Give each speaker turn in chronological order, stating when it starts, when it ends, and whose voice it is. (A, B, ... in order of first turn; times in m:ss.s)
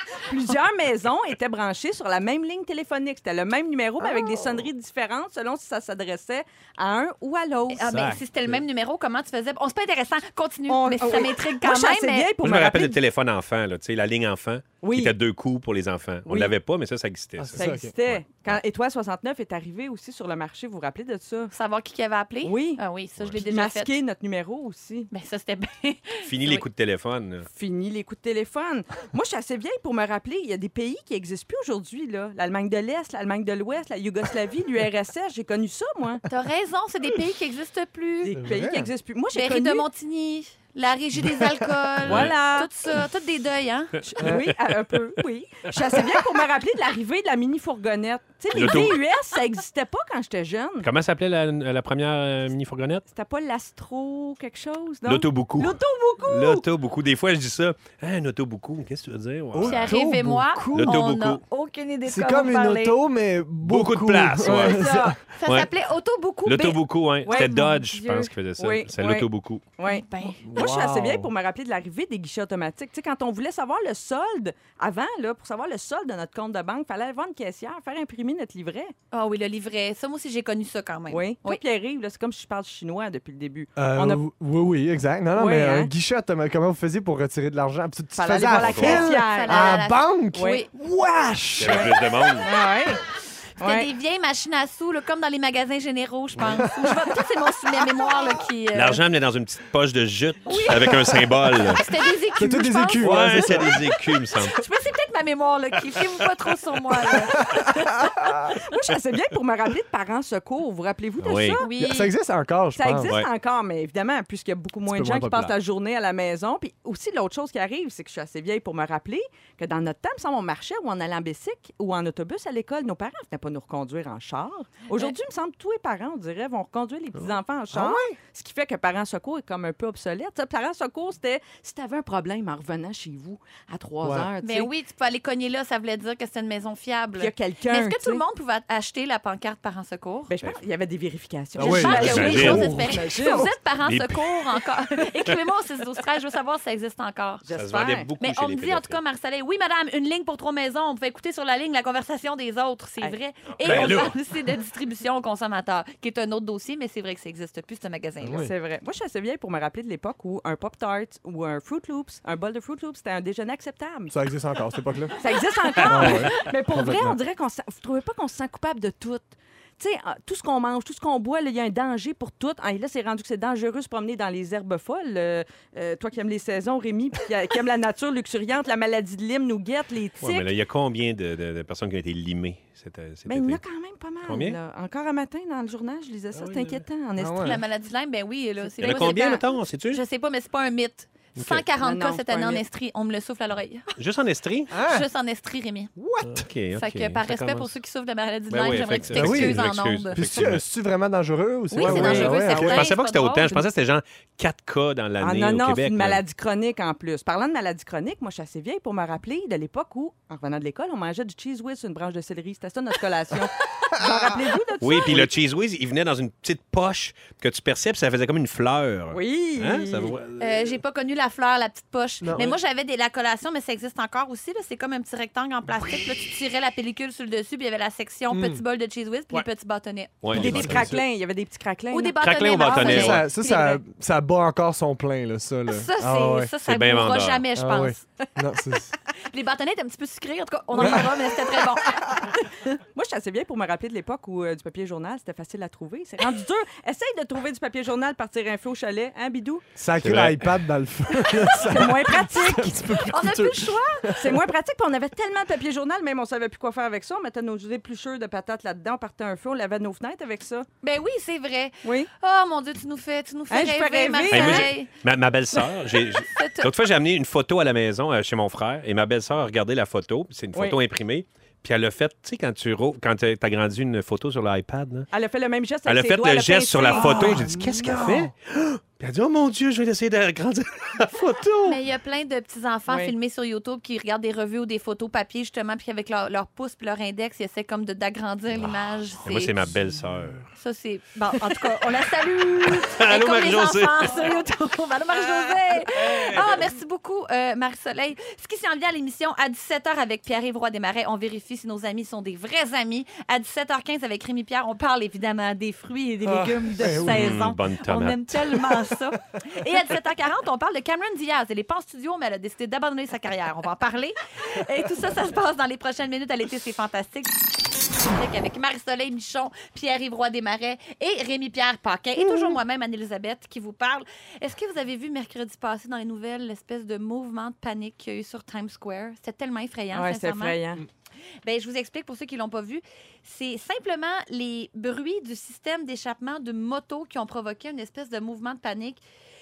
0:00.3-0:08.0 A
0:07.7-0:12.3 B
0:07.9-0:08.6 C
0:10.7-0:13.0 A
0:12.4-0:18.6 C
0:14.8-0:15.1 A
0:16.3-0:16.5 A
0:17.4-0:17.9 D
0:17.5-0:21.5 A
0:21.5-0:23.9 B
0:22.4-0:22.8 A
0:23.4-0:25.1 A
0:25.1-0:26.6 B
0:26.2-0:27.5 C
0:27.5-0:36.2 A
0:36.3-0:38.4 B
0:38.2-0:39.9 A
0:38.4-0:38.9 D
0:39.3-0:44.1 B
0:42.0-0:42.7 A
0:42.0-0:42.4 C
0:44.1-0:50.9 A
0:44.2-0:44.5 C
0:48.5-0:49.0 C
0:50.8-0:53.0 C
0:53.1-0:56.6 A
0:55.1-1:00.0 C
0:59.5-1:01.0 D
0:59.6-1:03.0 B
1:00.7-1:01.4 C
1:02.0-1:05.2 D
1:03.6-1:04.9 C
1:04.4-1:08.2 B
1:06.4-1:09.6 C
1:07.2-1:18.9 A
1:09.8-1:10.4 B
1:10.4-1:11.3 D
1:19.1-1:21.6 B
1:21.1-1:24.2 A
1:23.8-1:32.1 D
1:25.4-1:25.9 A
1:28.2-1:29.8 A
1:28.6-1:29.0 C
1:28.9-1:30.7 B
1:30.4-1:30.6 A
1:31.6-1:32.5 C
1:31.6-1:33.0 A
1:33.6-1:33.9 A
1:33.6-1:39.0 B
1:38.7-1:41.9 C
1:40.5-1:47.8 B
1:42.4-1:43.8 D
1:43.0-1:44.6 C
1:47.3-1:48.6 D
1:48.5-1:51.7 A
1:51.2-1:51.6 C
1:51.6-1:52.1 B
1:51.8-1:53.1 D
1:52.8-2:14.7 A
1:54.9-1:55.6 D
2:07.7-2:08.2 D
2:14.0-2:14.3 D
2:14.4-2:20.4 B
2:17.2-2:18.2 A
2:20.3-2:23.5 A
2:21.6-2:23.5 D
2:21.6-2:27.4 B
2:22.0-2:22.8 C
2:23.8-2:24.6 C
2:27.4-2:28.1 A
2:27.6-2:29.0 C
2:28.2-2:38.5 B
2:33.6-2:34.1 C
2:33.6-2:34.1 D
2:38.2-2:38.5 D
2:38.4-2:44.2 A
2:44.1-2:45.2 D
2:45.2-2:49.3 A
2:45.8-2:47.2 D
2:49.8-3:00.5 A
3:00.2-3:03.6 C
3:03.3-3:07.6 A
3:04.2-3:04.6 C
3:06.3-3:06.8 C
3:07.2-3:07.6 D
3:07.4-3:13.9 B
3:08.8-3:10.0 C
3:11.4-3:11.6 C
3:11.8-3:12.6 A
3:14.0-3:14.7 C
3:14.7-3:15.1 D
3:14.7-3:15.9 B
3:16.0-3:16.5 D
3:16.2-3:17.7 C
3:16.8-3:20.3 B
3:18.5-3:20.6 C
3:19.1-3:19.6 D
3:20.1-3:22.9 D
3:21.7-3:23.6 B
3:21.7-3:22.4 A
3:21.9-3:26.2 C
3:25.2-3:35.3 A
3:34.8-3:40.5 C
3:39.1-3:40.2 A
3:40.4-3:50.2 B
3:42.2-3:42.6 D
3:48.3-3:48.6 D
3:50.2-3:50.9 C
3:50.3-3:51.0 D
3:50.3-3:53.0 A
3:51.9-3:53.8 B
3:52.2-3:53.2 C
3:52.8-3:56.5 D
3:55.7-3:58.0 B
3:56.6-3:57.5 C
3:57.6-3:58.9 D
3:59.1-4:02.6 B
4:00.8-4:01.1 D
4:02.9-4:09.6 A
4:09.8-4:14.5 D
4:10.0-4:10.6 C
4:11.2-4:12.9 A
4:12.8-4:14.2 B
4:14.1-4:20.7 A
4:20.8-4:24.9 B
4:21.8-4:22.1 A
4:23.5-4:24.8 A
4:24.3-4:35.1 C
4:26.1-4:26.7 B
4:35.1-4:37.6 A
4:35.9-4:41.8 C
4:36.9-4:38.3 D
4:41.6-4:49.5 B
4:42.9-4:43.1 A
4:48.6-4:50.5 C
4:50.6-5:30.6 B
4:52.8-4:54.3 C
4:55.2-4:56.7 C
5:06.3-5:07.4 D
5:06.8-5:08.9 C
5:29.9-5:30.8 A
5:31.4-5:39.0 B